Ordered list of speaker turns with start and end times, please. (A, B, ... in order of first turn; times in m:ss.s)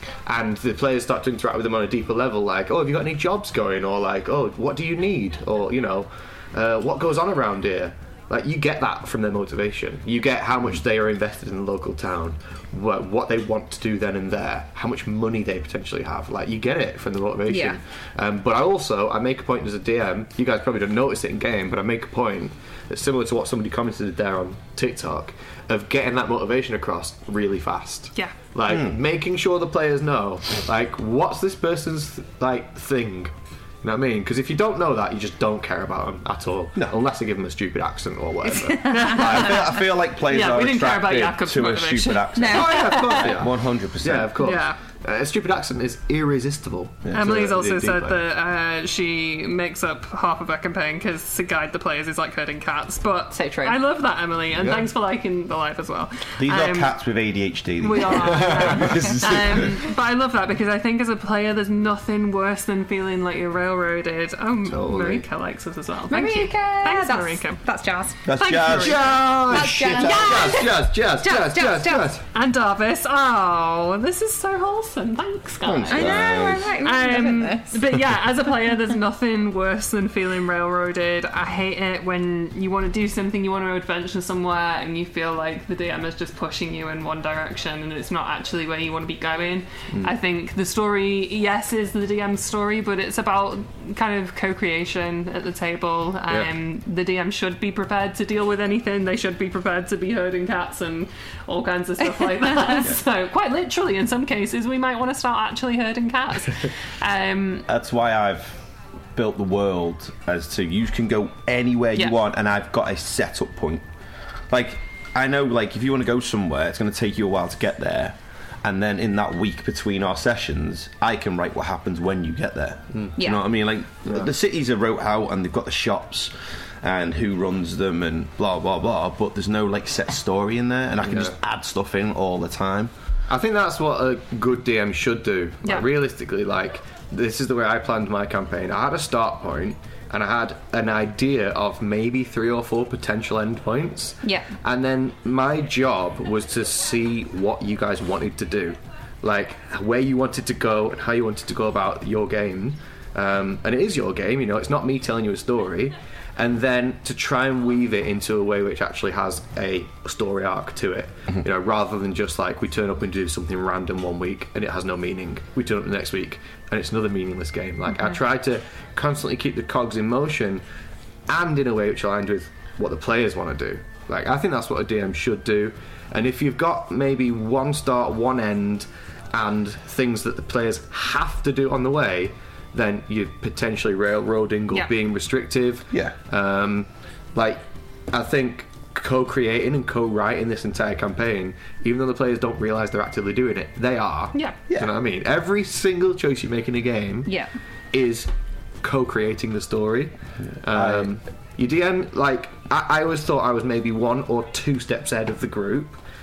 0:00.3-0:39.8 A
0:17.5-0:17.8 B
0:38.4-0:39.2 B
0:38.9-0:42.6 C
0:39.2-0:44.3 D
0:42.4-0:43.4 B
0:42.5-0:48.2 A
0:44.4-0:44.8 C
0:47.1-0:47.3 D
0:47.1-0:57.0 C
0:53.3-0:53.8 B
0:54.6-0:54.9 A
0:56.4-0:59.0 D
0:57.8-1:07.6 C
0:58.1-0:59.7 A
1:04.6-1:05.3 A
1:06.1-1:08.6 B
1:08.3-1:11.0 D
1:08.4-1:09.2 C
1:08.7-1:12.2 A
1:09.5-1:12.2 B
1:12.3-1:16.3 C
1:15.6-1:16.7 D
1:15.9-1:17.8 B
1:16.8-1:47.7 C
1:47.7-1:48.6 D
1:49.2-1:53.8 D
1:54.5-2:12.9 D
2:03.2-2:03.4 B
2:04.1-2:04.3 A
2:11.0-2:11.4 A
2:13.3-2:50.6 A
2:15.6-2:15.9 C
2:24.2-2:24.5 B
2:51.3-3:17.3 A
3:17.9-3:18.3 A
3:18.8-3:26.0 A
3:20.7-3:21.1 D